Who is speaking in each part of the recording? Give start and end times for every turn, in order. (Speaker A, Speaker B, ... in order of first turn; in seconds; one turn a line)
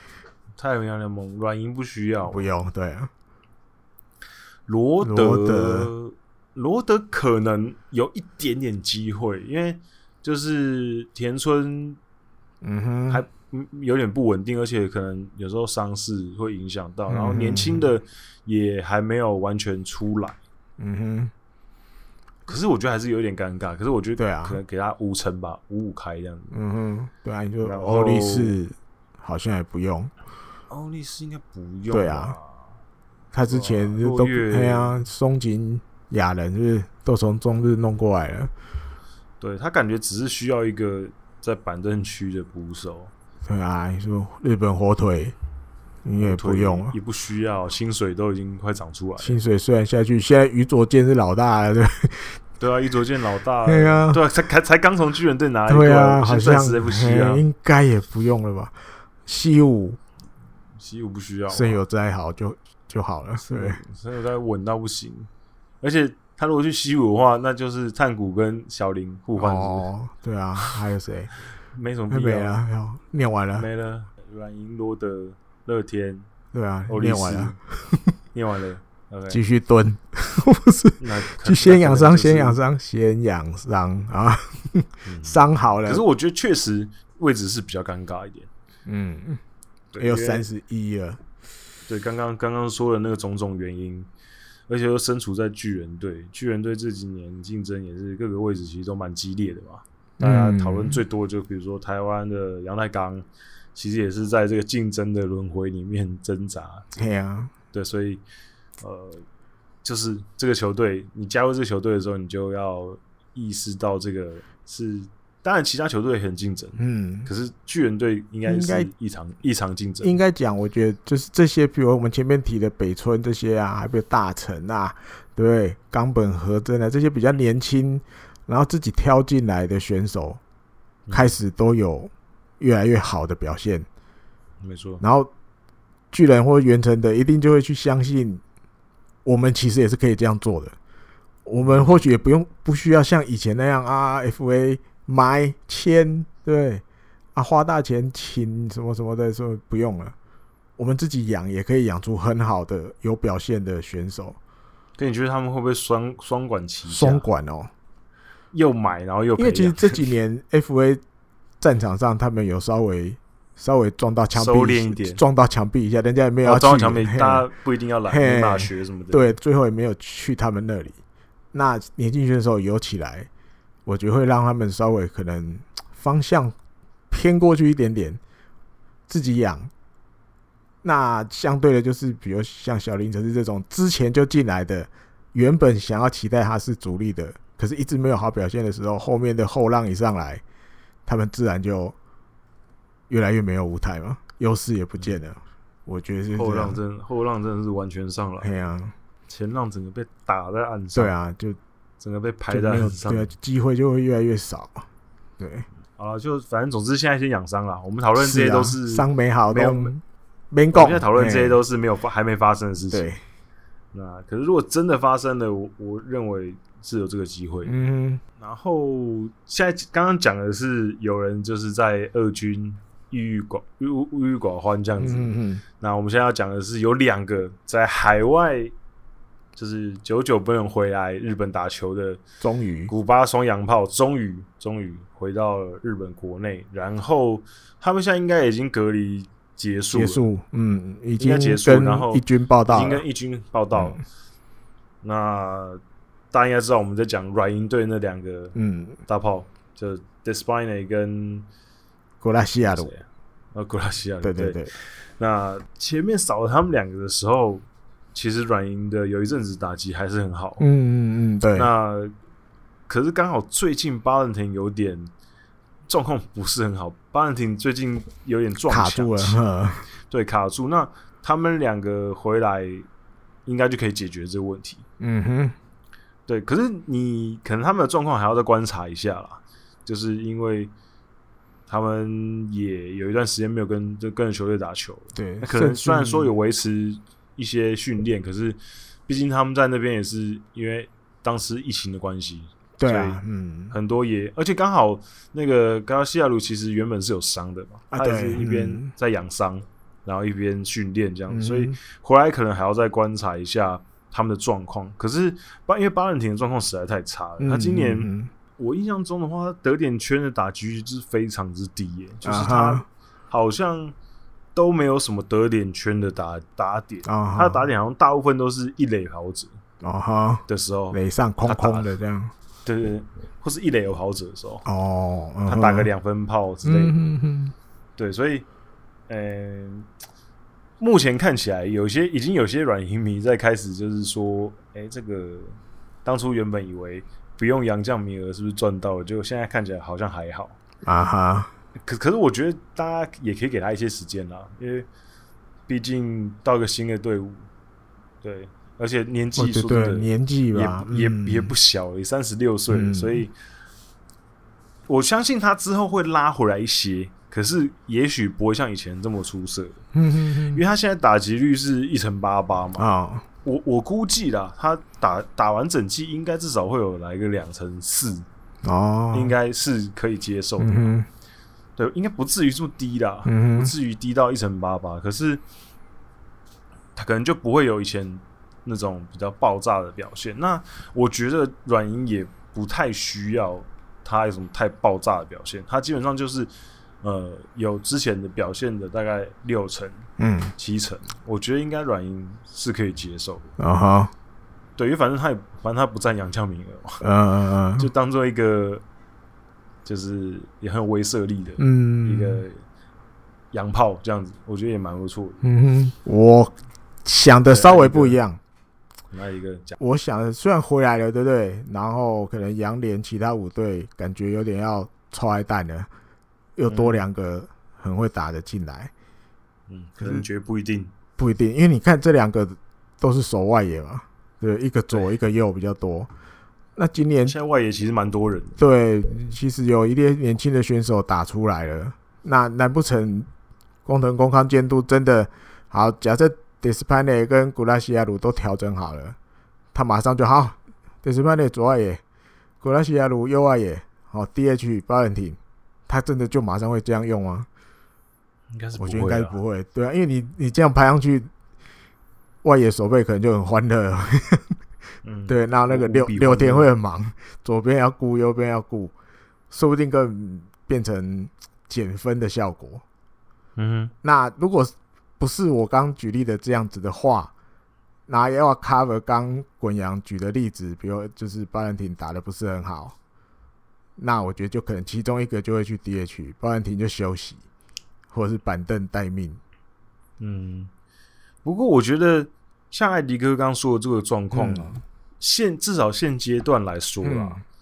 Speaker A: 0.6-2.5
Speaker B: 2.3-3.1
Speaker A: 4.7-12.0
Speaker B: 5.0-5.9
Speaker B: 12.6-13.2
Speaker A: 13.1-20.4
Speaker B: 17.1-17.8
Speaker B: 20.8-21.3
Speaker A: 22.5-26.6
Speaker B: 24.2-24.6
Speaker B: 26.5-30.1
Speaker A: 27.6-28.6
Speaker A: 30.7-32.7
Speaker B: 31.9-32.4
Speaker B: 33.3-38.5
Speaker A: 33.5-35.0
Speaker A: 39.4-43.1
Speaker B: 43.5-45.4
Speaker B: 46.0-46.9
Speaker A: 46.2-49.4
Speaker B: 49.2-52.4
Speaker A: 52.6-57.4
Speaker B: 53.7-54.2
Speaker B: 55.7-58.8
Speaker B: 59.3-60.0
Speaker A: 60.8-61.8
Speaker B: 61.5-63.8
Speaker A: 63.4-65.3
Speaker A: 65.8-69.9
Speaker B: 69.4-71.3
Speaker A: 71.7-72.6
Speaker B: 72.1-73.7
Speaker A: 73.6-76.3
Speaker B: 76.5-78.1
Speaker A: 76.9-77.6
Speaker A: 78.3-79.4
Speaker B: 79.3-86.0
Speaker A: 81.0-82.6
Speaker A: 85.1-88.5
Speaker B: 88.9-89.4
Speaker A: 89.9-90.5
Speaker B: 90.0-91.2
Speaker A: 91.9-94.1
Speaker A: 94.7-106.9
Speaker B: 100.2-101.0
Speaker B: 107.0-107.5
Speaker A: 107.7-108.2
Speaker A: 108.8-109.2
Speaker A: 109.8-120.2
Speaker B: 116.8-117.3
Speaker B: 118.5-118.9
Speaker B: 120.0-130.4
Speaker A: 131.1-131.3
Speaker B: 131.1-133.9
Speaker A: 134.6-135.0
Speaker B: 135.0-135.3
Speaker B: 136.1-138.4
Speaker B: 139.2-140.8
Speaker B: 141.5-146.8
Speaker A: 141.6-142.0
Speaker B: 147.3-150.1
Speaker B: 150.8-154.4
Speaker A: 155.0-157.2
Speaker B: 156.9-157.7
Speaker A: 158.5-160.1
Speaker B: 159.4-161.0
Speaker B: 161.6-167.5
Speaker A: 164.3-165.2
Speaker A: 166.4-169.3
Speaker B: 168.1-171.0
Speaker B: 171.5-173.3
Speaker B: 173.9-176.6
Speaker B: 177.1-178.2
Speaker B: 179.1-179.7
Speaker B: 180.8-190.4
Speaker B: 191.1-191.9
Speaker B: 193.1-196.8
Speaker A: 196.4-198.6
Speaker B: 198.4-198.9
Speaker A: 199.3-201.1
Speaker B: 200.9-201.6
Speaker A: 202.0-203.3
Speaker B: 202.5-204.9
Speaker B: 205.4-205.7
Speaker A: 206.0-209.9
Speaker B: 208.2-211.6
Speaker A: 210.7-213.1
Speaker B: 212.9-213.2
Speaker A: 213.9-217.8
Speaker B: 217.7-218.2
Speaker A: 218.4-228.7
Speaker B: 225.0-225.6
Speaker A: 229.6-232.2
Speaker B: 232.4-232.9
Speaker A: 232.9-240.2
Speaker B: 239.9-243.0
Speaker A: 241.2-244.0
Speaker A: 245.0-245.8
Speaker A: 246.3-248.6
Speaker B: 248.6-249.0
Speaker A: 249.1-251.5
Speaker B: 252.2-252.9
Speaker A: 252.7-257.6
Speaker B: 254.2-254.7
Speaker A: 258.1-260.6
Speaker B: 260.6-261.7
Speaker A: 261.5-262.1
Speaker A: 262.9-265.1
Speaker A: 265.9-269.4
Speaker B: 268.7-269.9
Speaker A: 270.1-272.9
Speaker A: 273.5-274.9
Speaker B: 275.0-275.6
Speaker A: 276.3-280.7
Speaker A: 281.7-293.2
Speaker B: 285.1-286.3
Speaker B: 292.8-293.8
Speaker A: 293.7-313.9
Speaker B: 297.9-298.9
Speaker B: 301.3-301.8
Speaker B: 307.4-308.3
Speaker B: 312.2-312.9
Speaker A: 314.6-319.6
Speaker B: 317.1-317.6
Speaker B: 319.8-322.3
Speaker A: 320.5-321.9
Speaker A: 322.6-324.6
Speaker B: 324.6-325.9
Speaker A: 325.5-327.0
Speaker B: 326.6-327.5
Speaker A: 328.0-328.4
Speaker A: 329.1-329.9
Speaker A: 330.8-340.6
Speaker B: 340.8-341.5
Speaker A: 341.8-344.9
Speaker A: 345.7-347.5
Speaker A: 348.2-353.3
Speaker B: 349.4-351.5
Speaker B: 352.7-353.2
Speaker A: 354.9-359.8
Speaker B: 359.9-360.6
Speaker A: 360.5-362.9
Speaker B: 362.8-363.3
Speaker A: 363.4-368.3
Speaker B: 368.6-369.3
Speaker A: 369.1-370.8
Speaker B: 370.6-371.1
Speaker A: 371.8-375.4
Speaker B: 373.3-373.7
Speaker A: 376.9-386.5
Speaker A: 387.0-393.5
Speaker B: 390.2-390.5
Speaker B: 393.6-394.1
Speaker A: 394.8-397.0
Speaker B: 397.0-397.9
Speaker A: 397.8-398.8
Speaker A: 399.9-402.6
Speaker B: 401.6-402.4
Speaker A: 403.5-405.4
Speaker B: 405.4-406.5
Speaker B: 407.1-408.4
Speaker A: 407.5-408.2
Speaker A: 409.1-409.8
Speaker B: 409.8-415.9
Speaker B: 416.6-418.9
Speaker A: 416.7-417.0
Speaker A: 419.7-420.9
Speaker B: 421.2-426.1
Speaker B: 426.8-427.4
Speaker A: 427.2-428.6
Speaker B: 428.6-433.3
Speaker B: 433.9-439.2
Speaker B: 439.7-442.0
Speaker B: 442.6-447.5
Speaker A: 448.5-449.4
Speaker B: 448.8-451.3
Speaker B: 452.4-454.6
Speaker A: 455.0-456.7
Speaker B: 455.3-458.9
Speaker B: 459.5-462.8
Speaker A: 463.6-463.9
Speaker B: 464.0-467.3
Speaker B: 468.1-473.0
Speaker B: 474.0-477.4
Speaker B: 478.1-479.4
Speaker A: 480.2-480.7
Speaker A: 481.4-487.4
Speaker B: 484.3-484.8
Speaker B: 487.0-487.4